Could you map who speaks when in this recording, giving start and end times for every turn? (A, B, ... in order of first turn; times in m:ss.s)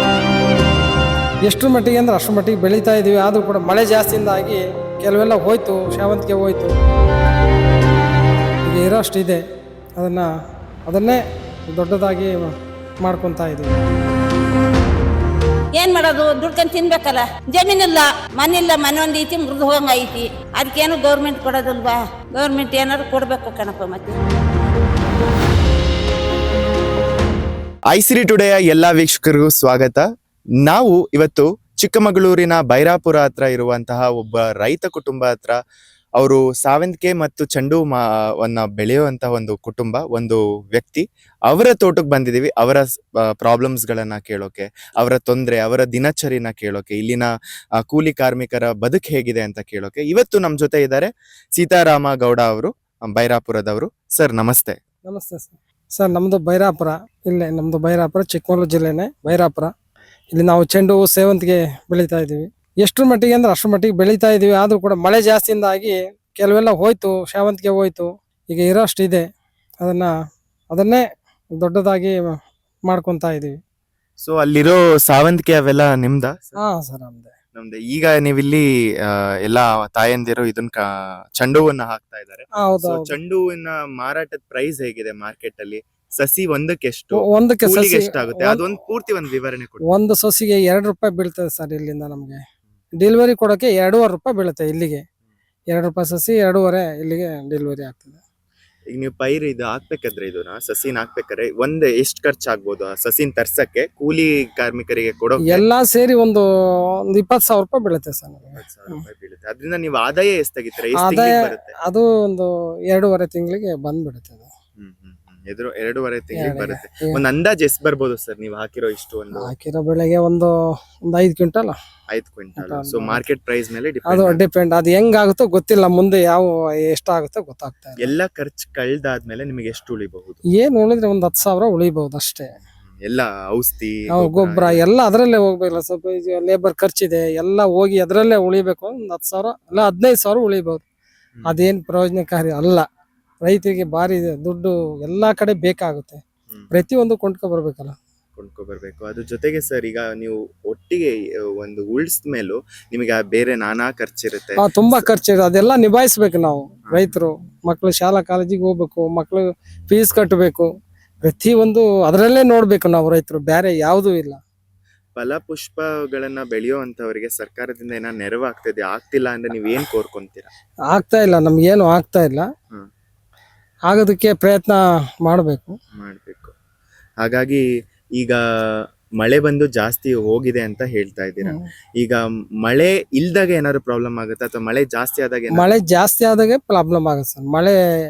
0:01.5-0:06.8 A
0:08.7-0:09.4 A
0:10.0-0:10.3 A
0:10.9-0:11.2 A
0:11.7-0:12.5 A
0:13.0-0:13.8 A
0:15.8-0:24.2 B
0:27.9-0:30.0 C
0:30.6-0:35.6 C
0:36.2-0:42.9 C
0:43.4-0:54.8 C
0:55.1-0:59.7 A
1:00.3-1:09.2 A
1:09.8-1:10.1 A
1:10.7-1:11.0 A
1:11.6-1:12.4 A
1:12.9-1:13.6 A
1:14.2-1:16.5 C
1:16.6-1:17.3 A
1:17.6-1:20.8 C
1:21.4-1:29.9 C
1:22.6-1:23.2 A
1:27.1-1:28.7 A
1:29.9-1:32.4 A
1:33.0-1:35.0 A
1:35.7-1:38.2 A
1:38.9-1:45.6 C
1:45.5-1:46.4 A
1:47.1-1:49.0 A
1:48.6-1:51.7 C
1:51.0-1:54.5 A
1:54.8-1:59.5 C
1:56.4-1:57.2 A
1:59.4-2:00.5 A
2:01.1-2:01.8 A
2:02.1-2:04.4 C
2:02.6-2:03.2 A
2:04.1-2:08.1 A
2:08.0-2:10.4 C
2:10.6-2:12.5 A
2:12.9-2:14.8 C
2:14.1-2:20.8 A
2:21.4-2:21.7 C
2:21.4-2:22.8 A
2:23.4-2:28.0 A
2:28.4-2:35.1 C
2:34.6-2:40.7 A
2:36.9-2:37.2 C
2:41.2-2:44.4 A
2:45.2-2:50.5 C
2:50.9-2:52.5 A
2:53.9-2:55.8 A
2:56.0-2:56.5 C
2:57.2-2:57.6 C
2:58.2-3:05.7 C
3:05.5-3:07.8 A